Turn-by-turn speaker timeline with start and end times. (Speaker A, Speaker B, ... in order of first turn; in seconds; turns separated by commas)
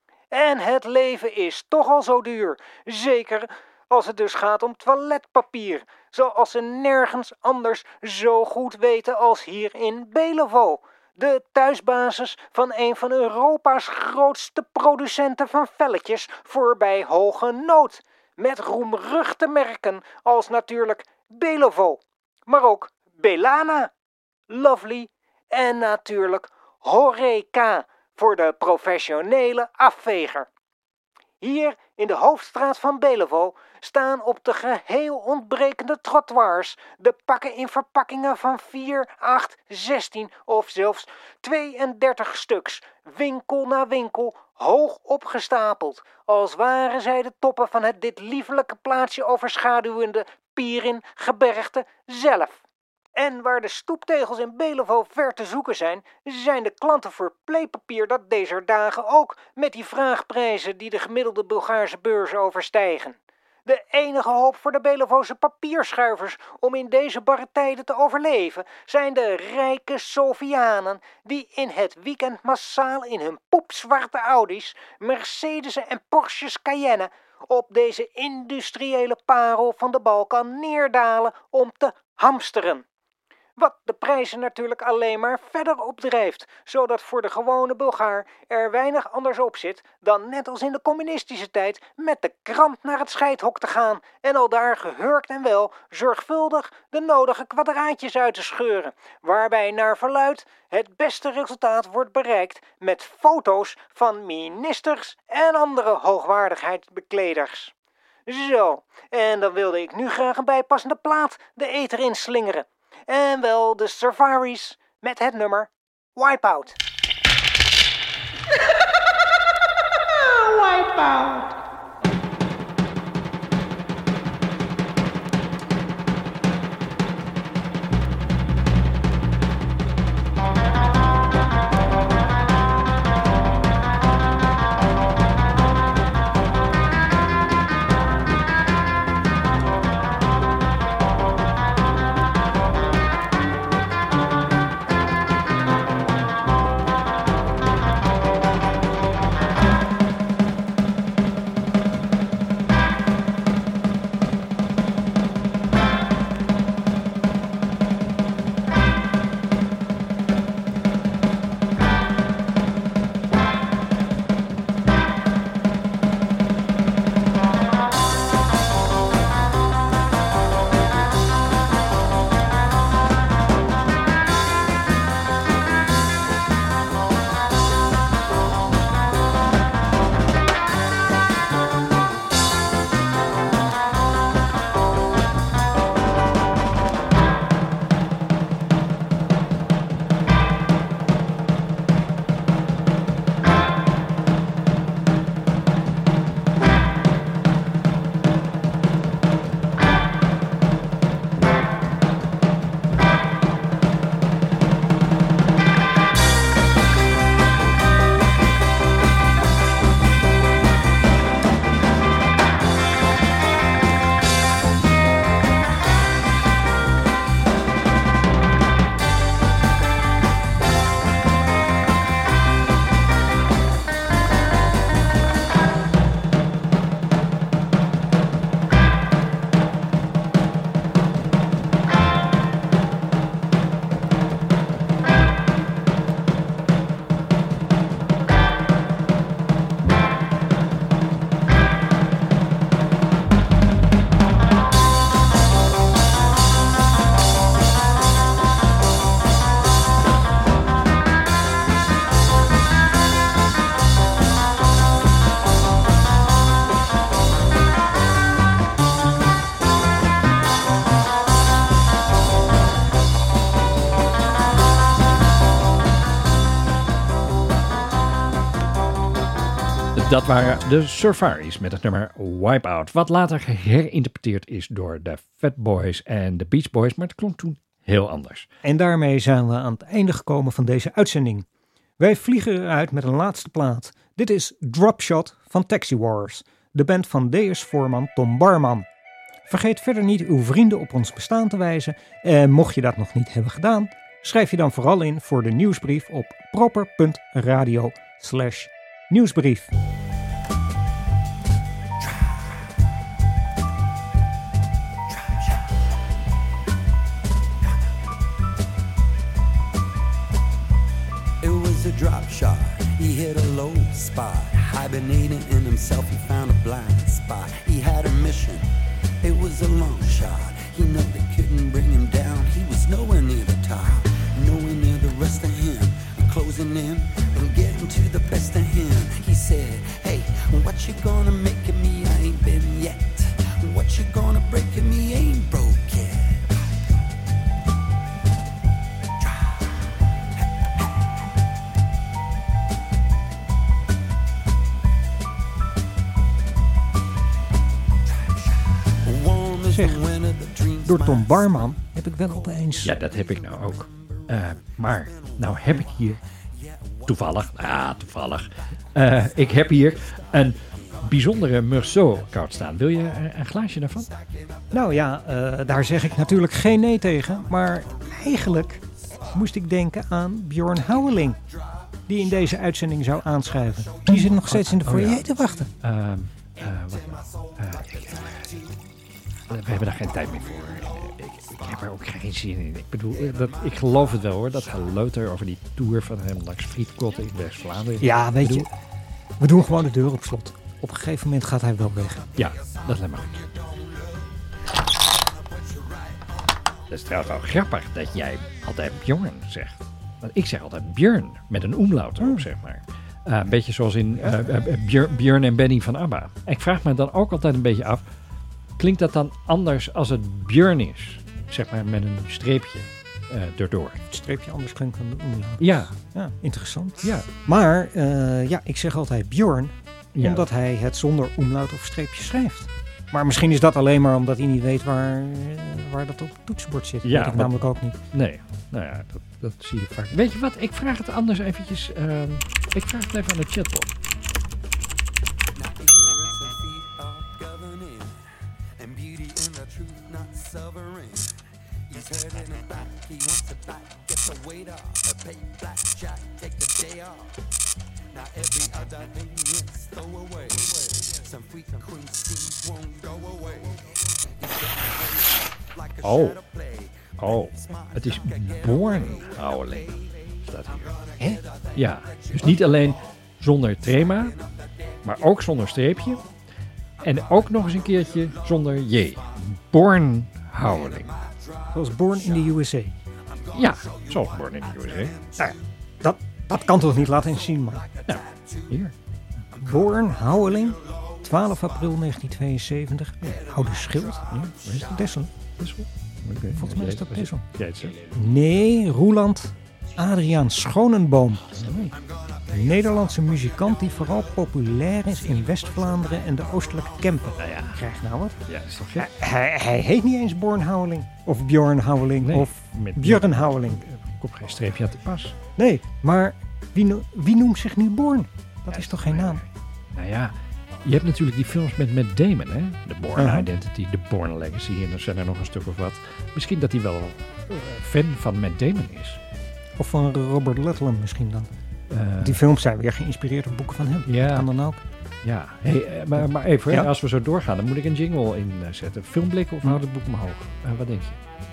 Speaker A: 0.3-23.9, Speaker A: 24.5-30.5, Speaker A: 31.4-52.6, Speaker A: 53.2-82.8, Speaker A: 83.6-107.7, Speaker A: 108.3-116.8, Speaker B: 269.9-278.5, Speaker A: 278.6-281.5, Speaker A: 282.0-288.9, Speaker A: 289.5-299.7, Speaker C: 311.4-318.7, Speaker C: 319.2-336.5, Speaker C: 349.0-358.1, Speaker A: 349.7-350.0, Speaker A: 350.8-353.0, Speaker B: 352.8-356.2, Speaker B: 357.1-364.1, Speaker C: 359.1-362.3, Speaker C: 364.0-364.7, Speaker A: 364.7-371.4, Speaker A: 372.1-375.7, Speaker B: 374.1-378.6, Speaker C: 376.9-378.7, Speaker B: 379.5-388.7, Speaker C: 380.1-381.7, Speaker C: 383.3-384.0, Speaker A: 388.0-388.7, Speaker A: 389.4-392.3, Speaker B: 392.4-393.4, Speaker C: 392.6-392.8, Speaker C: 393.4-394.1, Speaker C: 395.6-395.9, Speaker B: 396.9-408.1, Speaker A: 402.2-402.5, Speaker A: 404.2-404.5, Speaker B: 408.8-414.0, Speaker A: 414.1-428.0, Speaker B: 415.6-416.0, Speaker B: 417.0-417.3, Speaker B: 420.1-420.5, Speaker B: 427.0-427.6, Speaker B: 428.1-433.9, Speaker C: 435.6-438.3, Speaker C: 438.8-447.4, Speaker C: 448.1-462.9, Speaker B: 456.0-456.4, Speaker B: 457.2-460.9, Speaker B: 461.8-464.4, Speaker C: 464.2-464.5, Speaker B: 465.0-466.2, Speaker B: 467.0-471.1, Speaker C: 467.6-469.3, Speaker C: 470.6-471.7, Speaker A: 471.7-472.9, Speaker C: 473.3-475.6, Speaker B: 473.5-475.2, Speaker A: 475.4-477.9, Speaker C: 476.7-478.7, Speaker B: 478.1-478.9, Speaker A: 479.6-485.3, Speaker C: 483.4-484.5, Speaker B: 484.3-485.0, Speaker B: 485.6-488.0, Speaker A: 486.5-487.5, Speaker A: 488.1-491.8, Speaker B: 491.6-491.9, Speaker C: 491.9-494.0, Speaker A: 492.5-498.4, Speaker C: 495.2-496.2, Speaker B: 497.4-497.8, Speaker B: 498.5-499.1, Speaker A: 499.0-503.8, Speaker B: 502.2-505.4, Speaker A: 505.6-509.4, Speaker B: 508.7-519.2, Speaker A: 513.2-513.5, Speaker A: 519.8-521.5, Speaker B: 521.9-522.4, Speaker A: 522.2-524.8, Speaker B: 524.1-524.5, Speaker B: 525.2-531.2, Speaker A: 526.2-526.9